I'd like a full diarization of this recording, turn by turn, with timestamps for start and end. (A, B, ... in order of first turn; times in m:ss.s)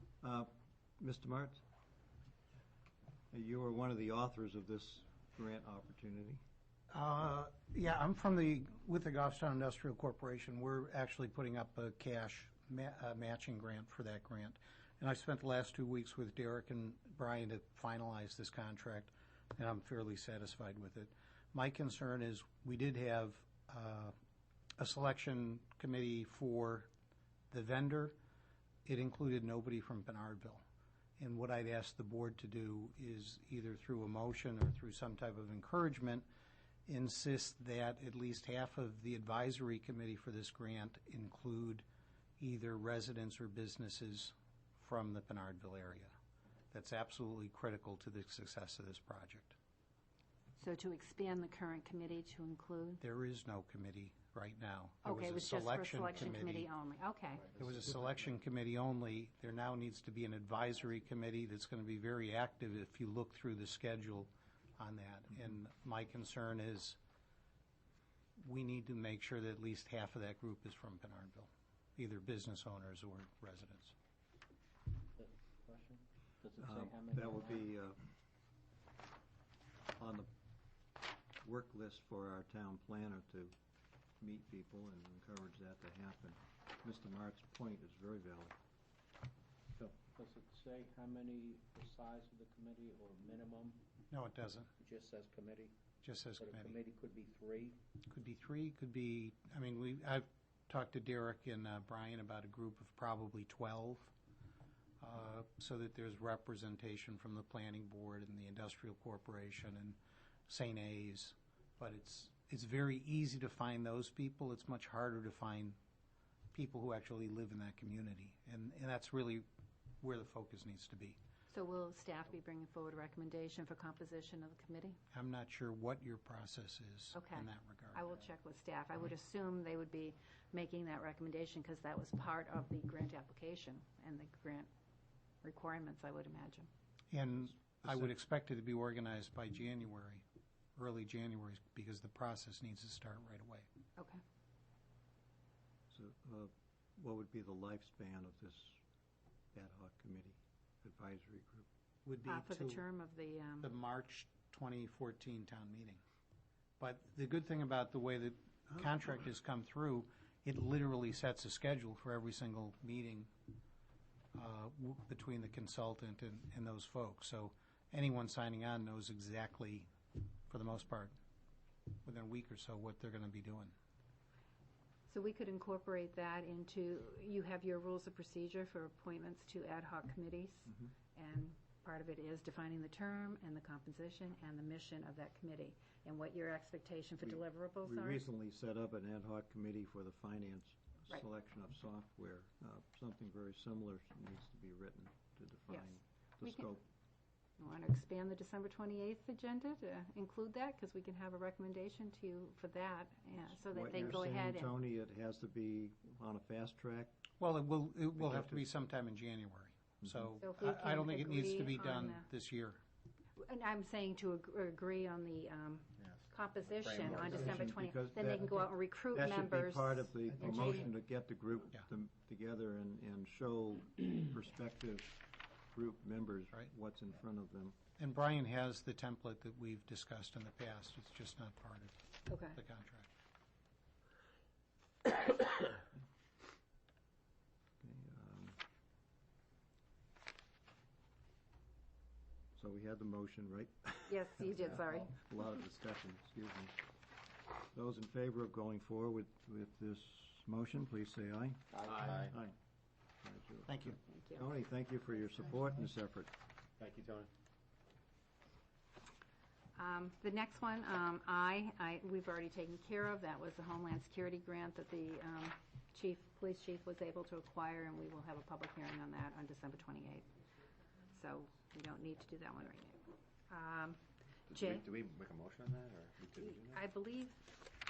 0:00.2-0:01.6 A
0:03.3-0:06.4 A
0:06.9-0:24.1 B
0:24.8-0:26.9 B
0:27.5-0:28.2 B
0:28.8-0:30.6 B
0:31.2-0:36.2 B
0:36.9-0:41.8 B
0:42.4-0:46.1 B
0:46.7-0:49.6 B
0:50.6-0:53.0 C
0:53.0-0:56.7 B
0:55.0-0:57.5 C
0:57.6-1:07.0 B
1:08.4-1:13.9 B
1:15.2-1:17.7 D
1:16.6-1:18.0 A
1:20.0-1:20.3 A
1:21.4-1:23.5 A
1:24.2-1:28.6 A
1:30.1-1:33.8 D
1:34.1-1:34.7 B
1:34.8-1:35.7 D
1:36.0-1:36.8 B
1:36.4-1:37.8 D
1:38.1-1:44.1 B
1:45.0-1:55.8 B
1:56.5-1:59.4 B
2:00.0-2:01.2 B
2:01.5-2:05.0 C
2:05.1-2:08.0 B
2:07.1-2:14.7 C
2:15.4-2:16.7 C
2:17.1-2:20.2 B
2:17.6-2:18.1 A
2:20.8-2:23.6 B
2:25.9-2:28.8 A
2:29.5-2:31.7 A
2:32.0-2:32.8 B
2:32.2-2:33.7 C
2:33.6-2:36.0 B
2:36.8-2:43.3 B
2:44.3-2:49.9 B
2:50.5-2:51.1 B
2:52.0-2:53.7 B
2:55.1-3:08.2 C
3:07.2-3:16.8 A
3:15.7-3:16.6 C
3:17.6-3:24.7 C
3:23.6-3:27.2 A
3:27.4-3:32.8 B
3:28.2-3:28.7 A
3:30.4-3:32.3 C
3:33.4-3:40.9 C
3:36.0-3:37.3 E
3:37.0-3:45.2 A
3:45.7-3:47.8 A
3:48.0-3:53.1 B
3:52.3-3:52.6 C
3:57.8-3:58.6 A
4:02.6-4:06.8 A
4:04.1-4:05.1 C
4:07.7-4:12.5 A
4:11.8-4:12.0 D
4:11.8-4:12.4 E
4:13.2-4:16.3 A
4:13.6-4:14.0 B
4:14.1-4:14.5 C
4:16.8-4:17.3 E
4:19.7-4:30.3 C
4:31.1-4:34.8 C
4:34.5-4:36.8 E
4:36.4-4:37.4 C